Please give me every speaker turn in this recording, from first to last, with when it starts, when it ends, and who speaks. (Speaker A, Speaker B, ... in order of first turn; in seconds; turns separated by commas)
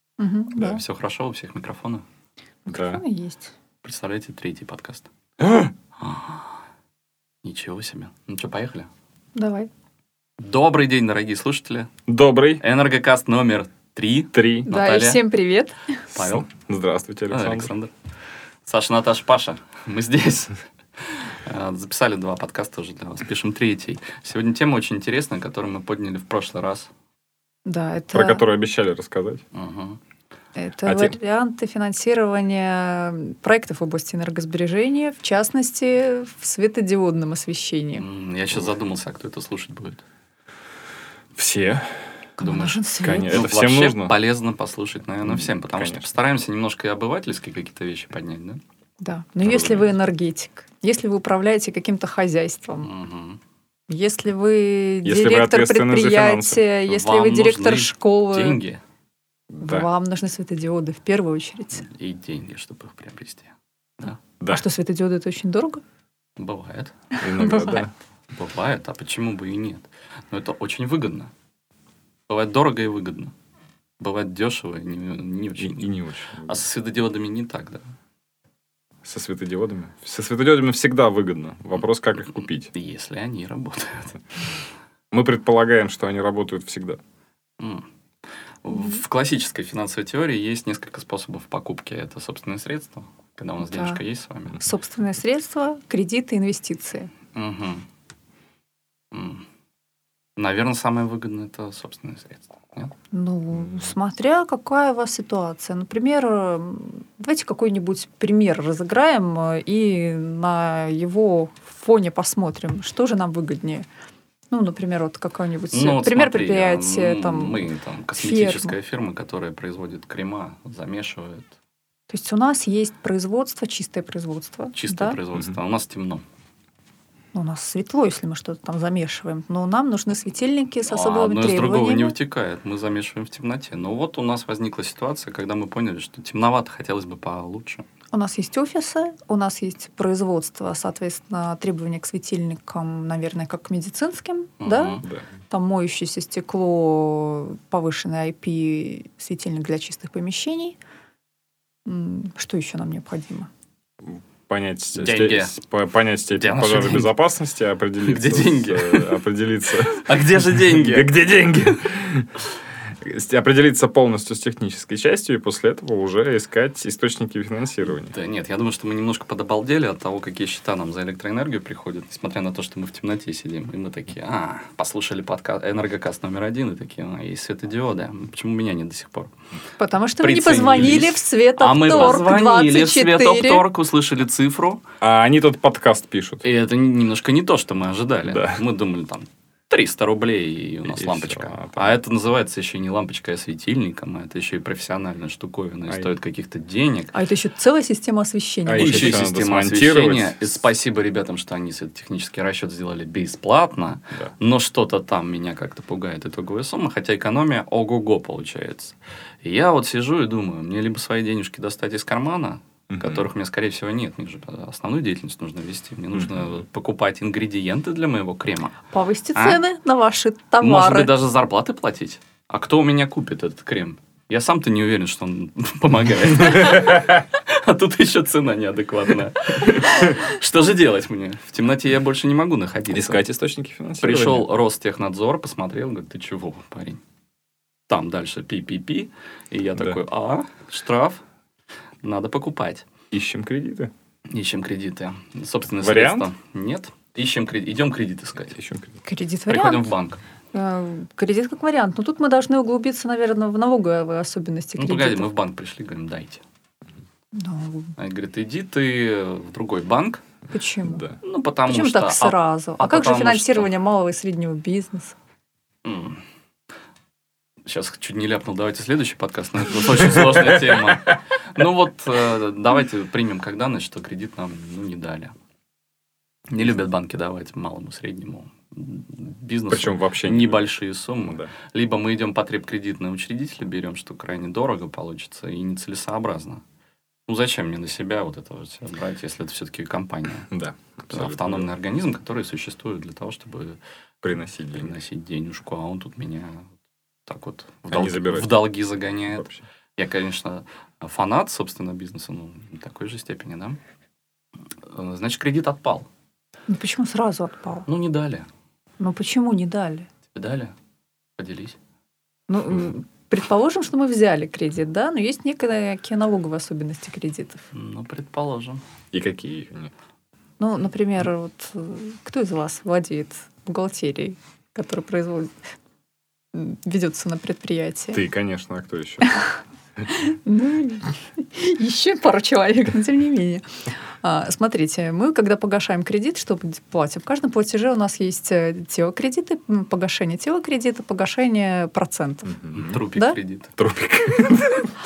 Speaker A: 0.2-0.8, Speaker B: 0.6-2.0, Speaker A: 2.6-3.5, Speaker C: 2.7-3.0, Speaker B: 3.8-5.1, Speaker C: 5.4-5.7, Speaker B: 6.0-6.6, Speaker B: 7.4-8.9, Speaker A: 9.3-9.7, Speaker B: 10.4-11.9, Speaker C: 12.1-12.6, Speaker B: 12.6-15.2, Speaker C: 14.3-14.7, Speaker A: 14.7-16.0, Speaker C: 16.1-17.7, Speaker B: 16.1-16.5, Speaker B: 17.3-17.9, Speaker B: 18.7-26.9, Speaker A: 27.6-28.4, Speaker C: 28.1-29.4, Speaker B: 29.5-30.0, Speaker A: 30.6-38.0, Speaker C: 30.9-31.1, Speaker B: 38.0-40.0, Speaker C: 41.4-42.1, Speaker A: 42.4-43.4, Speaker B: 42.4-48.6, Speaker C: 43.0-44.1, Speaker C: 45.2-46.0, Speaker A: 49.0-52.9, Speaker B: 49.4-49.9, Speaker B: 52.8-53.4, Speaker A: 53.9-58.6, Speaker C: 55.0-56.6, Speaker B: 56.9-58.8, Speaker C: 59.5-59.9, Speaker A: 59.6-61.9, Speaker B: 61.8-64.2, Speaker A: 64.5-65.8, Speaker B: 66.4-67.0, Speaker A: 67.2-67.9, Speaker C: 67.2-67.9, Speaker B: 68.3-71.3, Speaker B: 72.3-73.3, Speaker B: 74.0-77.8, Speaker C: 75.6-76.6, Speaker C: 79.0-82.7, Speaker B: 82.7-84.2, Speaker C: 85.1-87.0, Speaker B: 87.6-87.9, Speaker B: 88.6-94.6, Speaker A: 93.6-94.0, Speaker A: 94.6-97.1, Speaker B: 97.3-97.9, Speaker B: 99.1-99.5, Speaker B: 100.4-102.9, Speaker A: 103.1-113.9, Speaker A: 114.5-118.8, Speaker B: 115.7-121.5, Speaker A: 122.1-125.2, Speaker B: 124.7-126.2, Speaker A: 127.3-132.2, Speaker B: 130.9-137.8, Speaker A: 138.1-145.0, Speaker B: 144.6-145.1, Speaker A: 145.5-150.8, Speaker A: 151.9-153.5, Speaker C: 154.0-162.4, Speaker B: 155.0-155.6, Speaker B: 156.3-157.1, Speaker B: 158.0-159.2, Speaker B: 159.8-161.1, Speaker C: 163.0-168.1, Speaker B: 167.9-179.3, Speaker A: 179.8-183.7, Speaker B: 180.2-184.8, Speaker C: 185.0-186.4, Speaker B: 186.4-197.1, Speaker C: 188.3-188.6, Speaker C: 190.9-192.0, Speaker A: 197.1-199.2, Speaker C: 198.7-200.5, Speaker B: 198.8-218.8, Speaker C: 212.9-213.3, Speaker C: 216.2-216.5, Speaker A: 218.9-221.1, Speaker B: 219.3-219.6, Speaker B: 220.6-233.2, Speaker C: 232.9-234.5, Speaker B: 234.0-237.0, Speaker B: 237.9-241.2, Speaker B: 242.0-242.9, Speaker C: 243.1-243.9, Speaker B: 244.3-248.6, Speaker C: 245.8-246.3, Speaker C: 248.5-248.9, Speaker A: 249.1-249.9, Speaker B: 249.5-250.2, Speaker A: 250.5-255.3, Speaker B: 254.8-256.4, Speaker A: 257.3-257.9, Speaker B: 258.0-260.2, Speaker A: 260.5-261.1, Speaker C: 260.9-261.2, Speaker B: 261.2-263.7, Speaker A: 261.7-265.1, Speaker B: 265.9-266.2, Speaker B: 267.7-275.4, Speaker C: 270.1-270.6, Speaker B: 276.5-286.6, Speaker C: 279.7-280.7, Speaker C: 281.2-281.5, Speaker B: 287.3-290.5, Speaker C: 290.5-291.7, Speaker B: 291.1-293.8, Speaker C: 294.2-295.0, Speaker B: 294.7-296.7, Speaker B: 297.3-303.8, Speaker C: 297.9-298.6, Speaker B: 304.9-306.1, Speaker A: 306.7-307.9, Speaker B: 307.9-308.5, Speaker A: 309.0-310.1, Speaker B: 310.3-310.8, Speaker B: 311.4-311.8, Speaker A: 312.5-317.6, Speaker B: 317.7-318.8, Speaker C: 319.1-319.9, Speaker A: 320.6-325.5, Speaker A: 326.5-328.2, Speaker C: 328.1-329.3, Speaker A: 329.2-329.6, Speaker A: 330.1-333.7, Speaker A: 334.2-342.6, Speaker C: 342.5-343.1, Speaker B: 342.7-343.7, Speaker C: 343.8-344.9